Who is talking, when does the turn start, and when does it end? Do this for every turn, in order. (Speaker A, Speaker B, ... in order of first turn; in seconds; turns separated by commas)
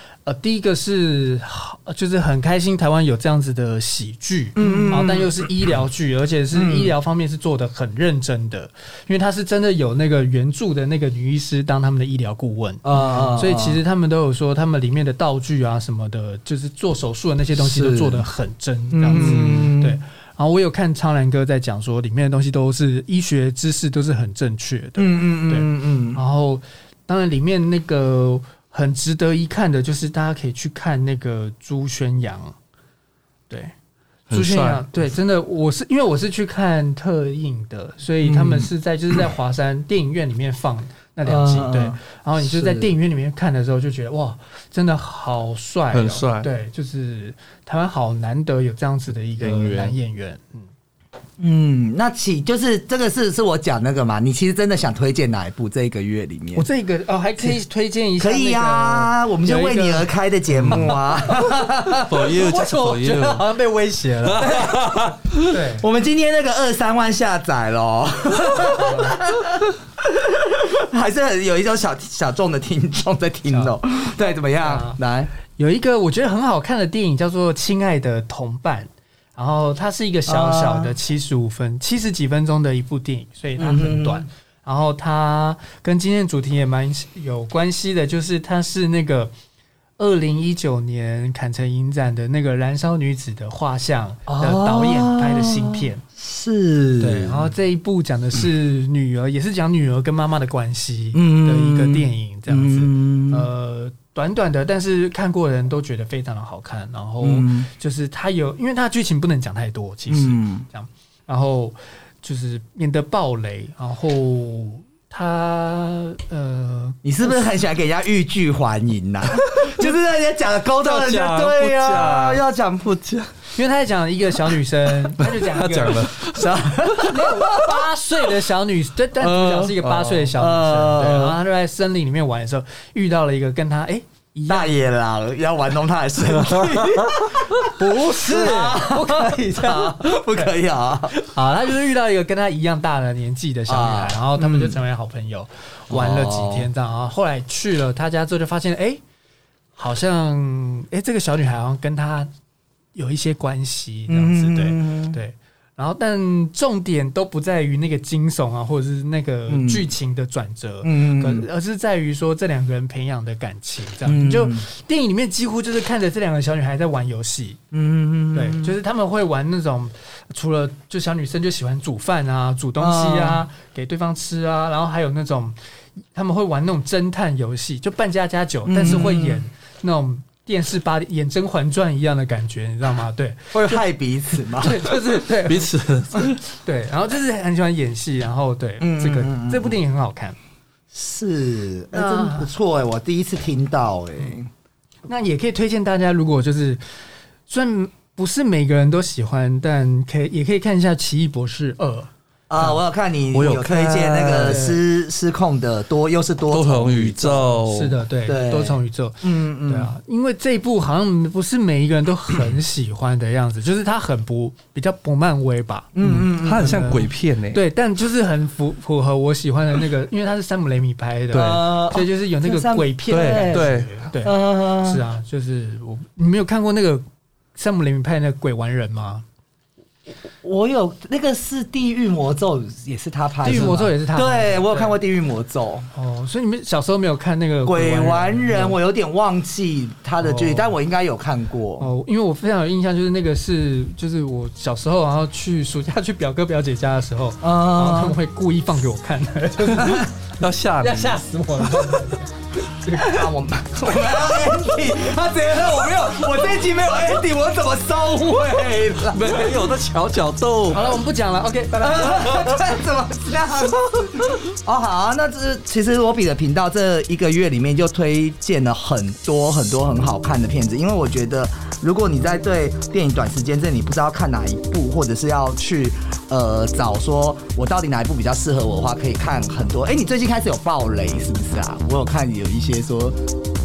Speaker A: 0.2-32.5, Speaker B: 4.6-5.4, Speaker B: 6.5-6.9, Speaker B: 12.8-13.8, Speaker B: 17.6-18.2, Speaker B: 18.9-20.0, Speaker B: 25.0-26.2, Speaker C: 34.3-34.9, Speaker A: 34.3-50.7, Speaker B: 38.2-38.7, Speaker B: 41.3-42.9, Speaker C: 45.9-46.5, Speaker C: 49.4-50.0, Speaker B: 51.4-56.7, Speaker A: 56.6-60.1, Speaker B: 58.2-62.1, Speaker C: 60.5-61.0, Speaker A: 60.7-64.7, Speaker C: 62.1-63.4, Speaker C: 64.2-65.4, Speaker B: 64.4-64.8, Speaker A: 65.3-65.8, Speaker B: 65.8-75.3, Speaker A: 68.6-69.2, Speaker A: 73.5-73.8, Speaker A: 74.3-89.3, Speaker B: 80.3-81.0, Speaker B: 83.6-84.3, Speaker A: 90.0-96.0, Speaker B: 94.3-97.5, Speaker A: 97.0-117.5, Speaker B: 101.1-103.5, Speaker B: 107.2-107.7, Speaker B: 110.1-110.7, Speaker B: 117.0-122.9, Speaker C: 120.8-123.5, Speaker A: 123.6-126.2, Speaker C: 125.2-126.5, Speaker B: 126.3-127.8, Speaker A: 126.9-134.8, Speaker B: 129.2-131.4, Speaker B: 134.5-141.2, Speaker A: 137.6-140.6, Speaker A: 141.1-149.0, Speaker B: 143.7-144.8, Speaker B: 145.9-146.7, Speaker A: 149.8-152.3, Speaker A: 152.9-167.6, Speaker B: 154.1-155.2, Speaker B: 159.5-159.9, Speaker B: 160.8-161.5, Speaker B: 164.1-164.7, Speaker B: 167.7-168.8, Speaker A: 168.3-175.6, Speaker B: 172.8-173.4, Speaker A: 176.1-190.4, Speaker B: 178.7-179.4, Speaker B: 183.5-184.8, Speaker C: 185.2-186.4, Speaker B: 188.8-189.8, Speaker B: 190.9-194.5, Speaker A: 191.9-192.5, Speaker A: 195.1-196.8, Speaker A: 197.5-202.8, Speaker B: 202.5-207.6, Speaker C: 203.3-204.6, Speaker A: 204.4-204.8, Speaker C: 206.5-208.0, Speaker A: 207.6-227.1, Speaker B: 208.3-209.9, Speaker B: 215.9-216.8, Speaker C: 216.1-217.6, Speaker B: 221.3-223.7, Speaker C: 223.1-223.9, Speaker B: 224.2-225.0, Speaker A: 227.6-229.2, Speaker B: 230.4-235.9, Speaker A: 233.4-235.0, Speaker A: 235.9-238.8, Speaker B: 237.7-241.9, Speaker A: 240.2-240.7, Speaker A: 241.8-253.3, Speaker B: 247.4-248.2, Speaker C: 249.8-251.2, Speaker B: 252.9-259.5, Speaker C: 259.1-261.0, Speaker A: 260.7-262.3, Speaker B: 261.7-283.2